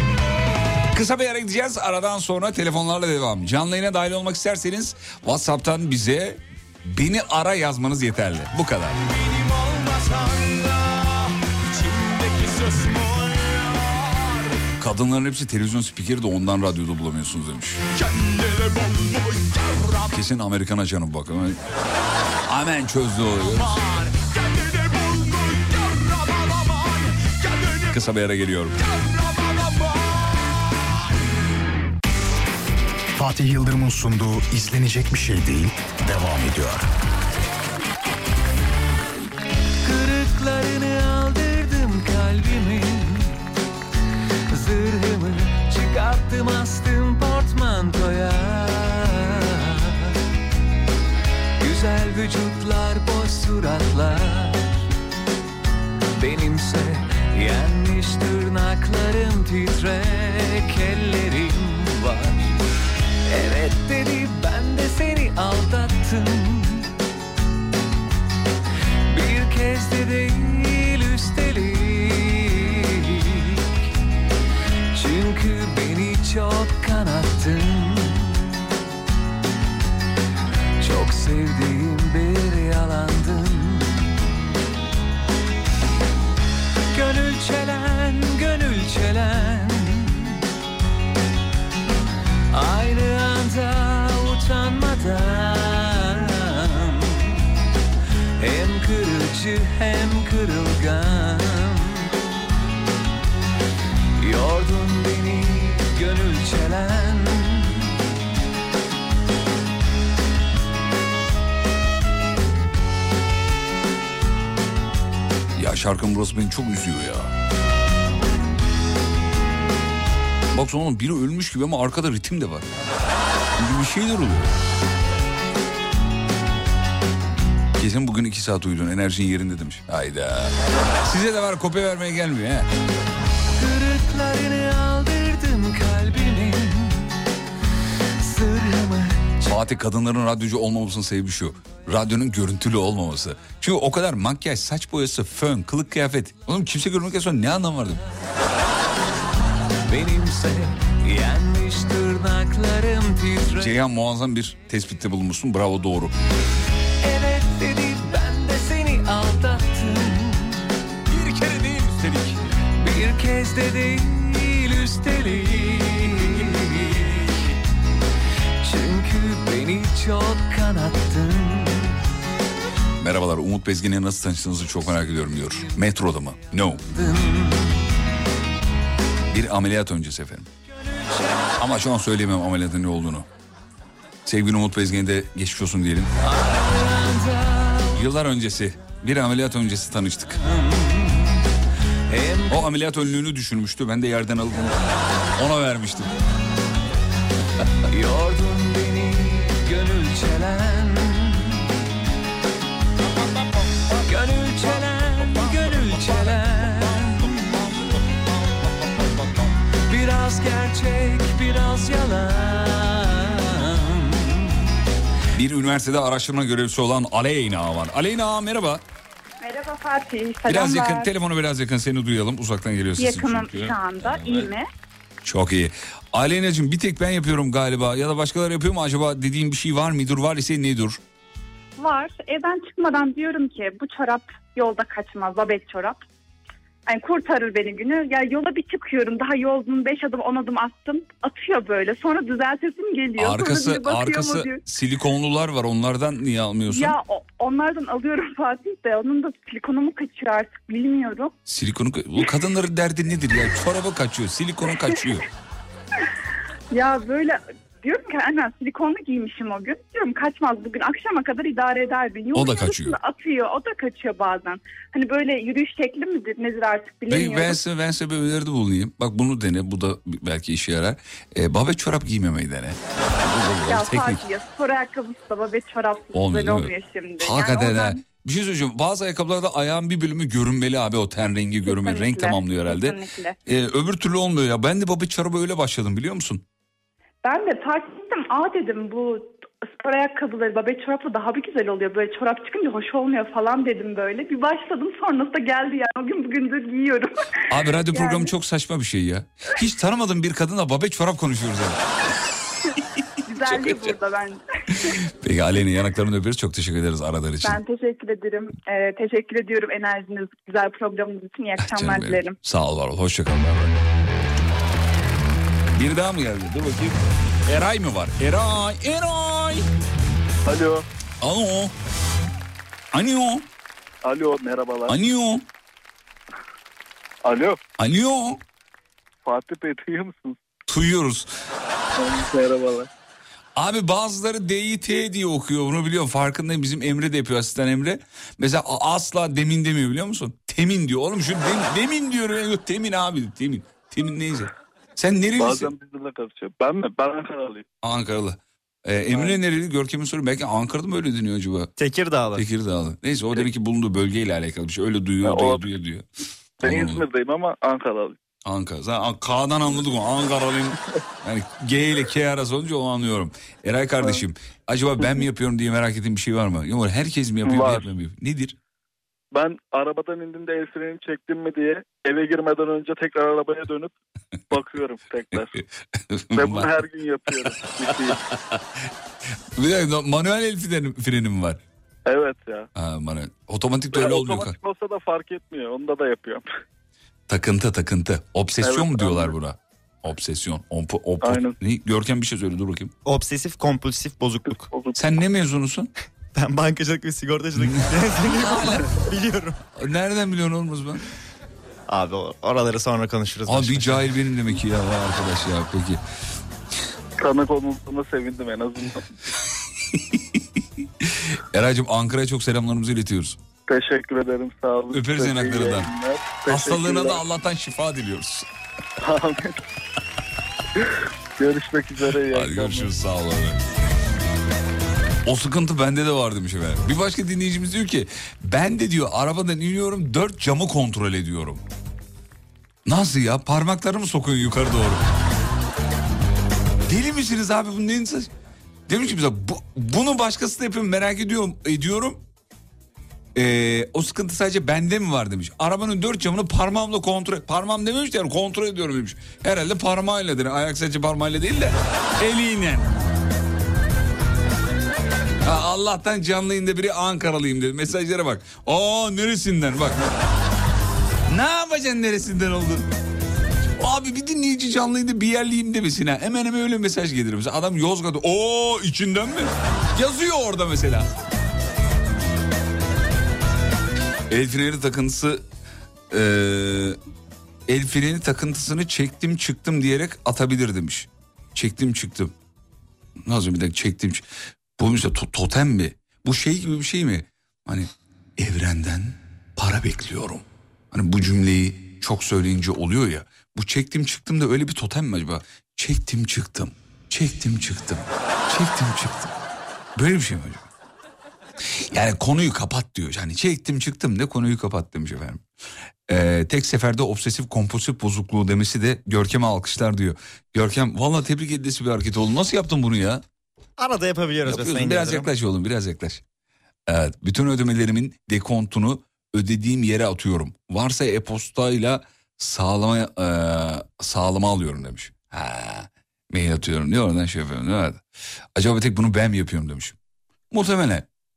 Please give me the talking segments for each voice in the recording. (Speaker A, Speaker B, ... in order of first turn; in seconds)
Speaker A: 0.9-9.0, 14.8-17.8, 20.1-21.6, 22.5-23.8, 27.9-28.8, 115.6-117.3, 120.5-122.7, 123.6-124.6, 127.8-132.7, 139.4-148.0, 153.6-156.1, 161.1-162.5, 173.0-176.8, 179.3-180.5, 181.6-183.3, 184.3-186.1, 187.9-190.4, 192.5-194.8, 195.3-196.1, 215.3-218.8, 220.5-224.5, 225.2-231.0, 243.2-247.0, 251.5-255.3, 262.3-263.0, 267.1-274.2, 276.1-286.4, 297.5-301.9, 303.4-303.9, 305.2-307.6, 311.6-313.8, 315.8-319.7, 321.2-321.7, 322.9-323.4, 324.9-325.4, 327.8-328.4, 330.7-331.3, 333.6-345.7, 347.8-351.7, 352.3-356.1, 356.6-357.1, 358.5-368.6, 375.3-376.9, 377.5-378.6, 379.6-381.6, 382.8-384.6, 387.3-392.9, 394.9-395.9, 397.6-399.1, 399.8-401.1, 403.5-406.0, 411.0-413.4, 414.9-415.9, 416.5-418.5, 422.1-423.6, 425.3-431.6, 432.9-435.1, 436.9-438.3, 438.9-442.2, 443.4-452.9, 455.4-460.0, 461.3-462.9, 463.8-471.1, 474.3-475.4, 476.1-477.0, 477.7-482.3, 483.2-484.2, 484.8-499.3, 500.0-500.7, 501.9-505.4, 506.1-513.2, 514.5-516.2, 516.9-528.0, 528.6-530.0, 530.5-531.1
Speaker B: 9.0-14.6, 17.9-20.2, 23.4-28.1, 28.8-30.9
Speaker C: 33.2-36.9
Speaker D: 39.9-43.2, 44.5-48.6, 51.7-54.5, 56.3-56.9, 57.5-58.0, 58.6-59.3, 59.9-62.4, 63.3-63.7, 69.2-69.7, 71.3-72.1, 75.0-78.1, 80.8-83.8
Speaker E: 219.4-221.1, 223.0-224.7, 231.8-236.0, 236.9-244.6, 246.7-251.3, 256.7-267.6, 273.6-278.0, 281.6-283.4, 287.2-297.1, 297.9-298.3, 303.3-304.9, 307.4-312.4
Speaker F: 320.5-320.8, 324.0-325.0, 327.2-327.6, 329.2-330.4, 332.0-332.9, 345.4-347.7, 349.1-349.4, 355.2-355.6, 356.6-358.2, 365.0-365.2, 367.5-367.9, 369.3-373.9, 374.5-375.6, 376.4-378.2, 382.1-382.7, 383.9-386.4, 388.6-389.4, 391.2-391.6, 394.5-395.0, 407.2-409.1, 413.7-417.2, 419.1-419.4, 421.4-422.9
Speaker G: 351.8-352.4, 393.1-394.7, 396.4-399.6, 401.9-404.1, 513.8-515.3